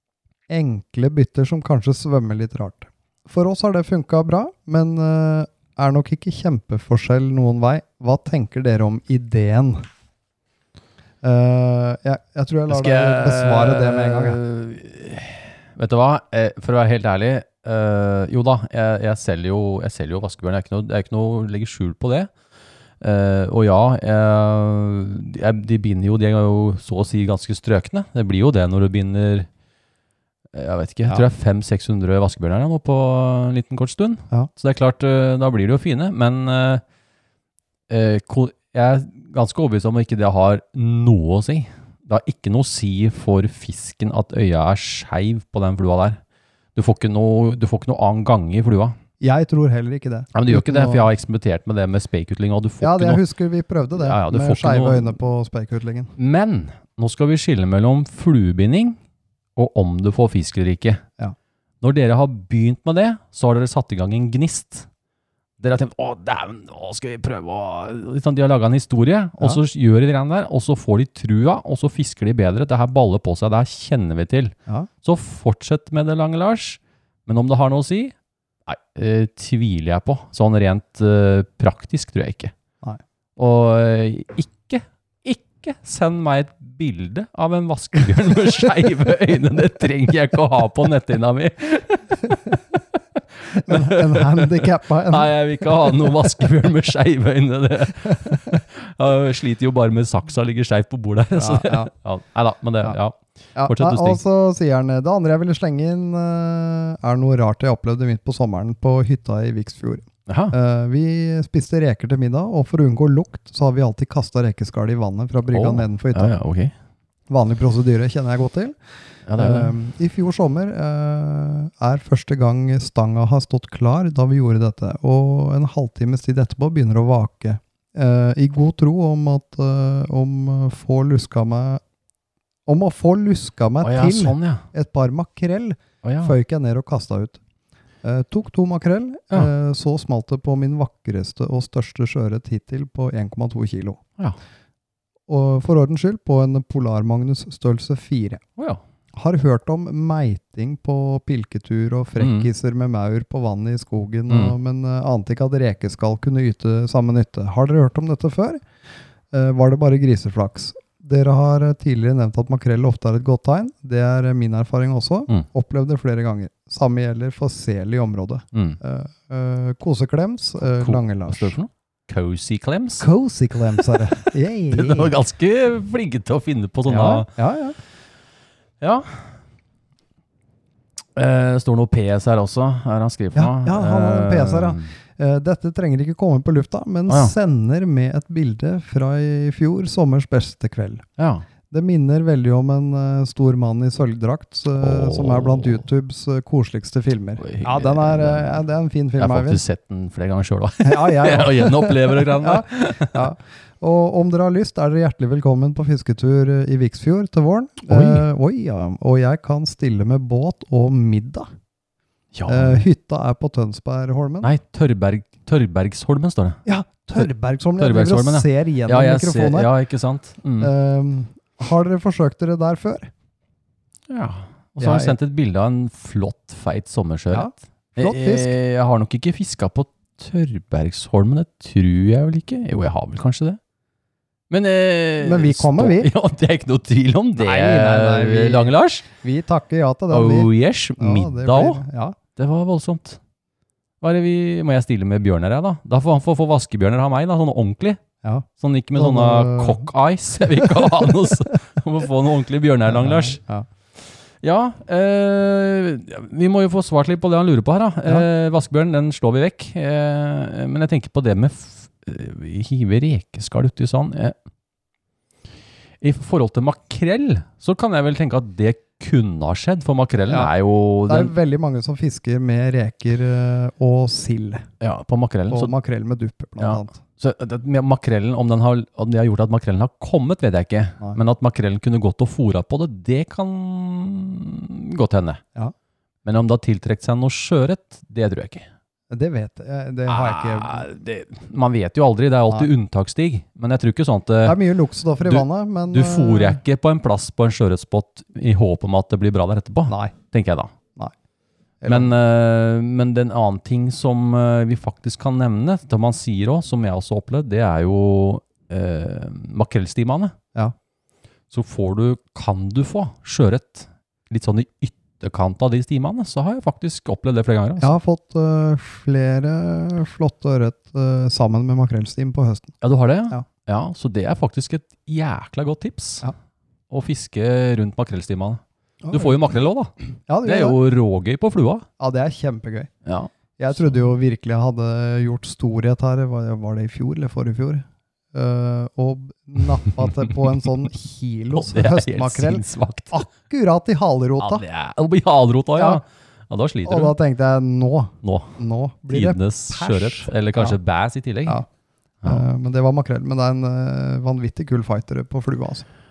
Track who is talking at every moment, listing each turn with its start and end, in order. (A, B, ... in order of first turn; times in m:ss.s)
0:00.5-0:09.9 A
0:11.2-0:14.4 A
0:12.7-0:22.3 B
0:23.0-0:29.5 B
0:30.5-0:36.8 B
0:37.9-0:46.2 B
0:46.7-0:49.0 B
0:49.2-0:51.1 A
0:50.3-0:53.2 B
0:52.8-0:56.1 A
0:54.0-0:55.1 B
0:56.2-0:59.0 B
0:59.6-1:01.0 B
1:01.8-1:04.9 B
1:05.6-1:18.1 B
1:18.7-1:22.5 B
1:23.4-1:44.2 B
1:33.5-1:36.2 A
1:38.0-1:38.6 A
1:41.4-1:41.9 A
1:43.6-1:56.3 A
1:50.3-1:50.6 B
1:55.5-1:56.7 B
1:57.3-1:58.8 A
1:59.3-1:59.7 B
1:59.4-2:11.8 A
2:12.6-2:17.4 A
2:13.8-2:14.6 B
2:16.0-2:16.3 B
2:18.0-2:24.0 A
2:25.3-2:28.4 A
2:29.1-2:38.6 A
2:32.2-2:32.5 B
2:34.3-2:34.5 B
2:39.3-2:51.6 A
2:48.5-2:48.8 B
2:50.6-2:53.1 B
2:53.0-2:55.1 A
2:53.8-2:57.3 B
2:56.9-2:57.8 A
2:58.8-2:59.3 B
3:01.2-3:04.9 B
3:03.3-3:11.0 A
3:07.1-3:07.3 B
3:11.2-3:11.4 B
3:11.7-3:19.6 A
3:14.8-3:15.8 B
3:17.4-3:18.6 B
3:19.2-3:23.3 B
3:20.8-3:31.5 A
3:27.8-3:28.2 B
3:32.3-3:32.8 B
3:32.5-3:34.5 A
3:34.4-3:36.6 B
3:36.6-3:39.7 A
3:37.8-3:40.7 B
3:40.6-3:43.1 A
3:44.1-3:53.6 B
3:44.8-3:45.2 A
3:47.3-3:48.5 A
3:54.5-3:59.0 B
3:55.2-3:56.1 A
3:57.4-4:02.2 A
4:00.1-4:01.8 B
4:02.4-4:03.2 B
4:04.0-4:08.0 B
4:08.2-4:09.9 A
4:08.6-4:13.4 B
4:10.6-4:10.9 A
4:12.9-4:13.6 A
4:14.4-4:24.3 B
4:26.0-4:31.3 B
4:30.3-4:30.5 A
4:31.0-4:34.7 A
4:34.8-4:35.7 B
4:35.5-4:37.0 A
4:36.6-4:45.4 B
4:46.2-4:48.6 B
4:49.1-4:50.9 A
4:50.1-4:54.6 B
4:54.4-4:56.6 A
4:55.2-5:00.7 B
4:59.9-5:00.1 A
5:01.8-5:02.1 A
5:01.8-5:10.3 B
5:11.5-5:18.0 B
5:17.8-5:22.7 A
5:22.8-5:26.3 B
5:26.9-5:31.8 B
5:29.0-5:29.4 A
5:30.3-5:30.8 A
5:32.0-5:32.9 A
5:33.0-5:33.3 B
5:33.6-5:44.6 A
5:41.5-5:43.2 B
5:44.4-5:47.1 B
5:45.8-5:46.0 A
5:46.8-5:50.8 A
5:48.2-5:48.6 B
5:49.1-5:51.6 B
5:52.2-5:55.8 A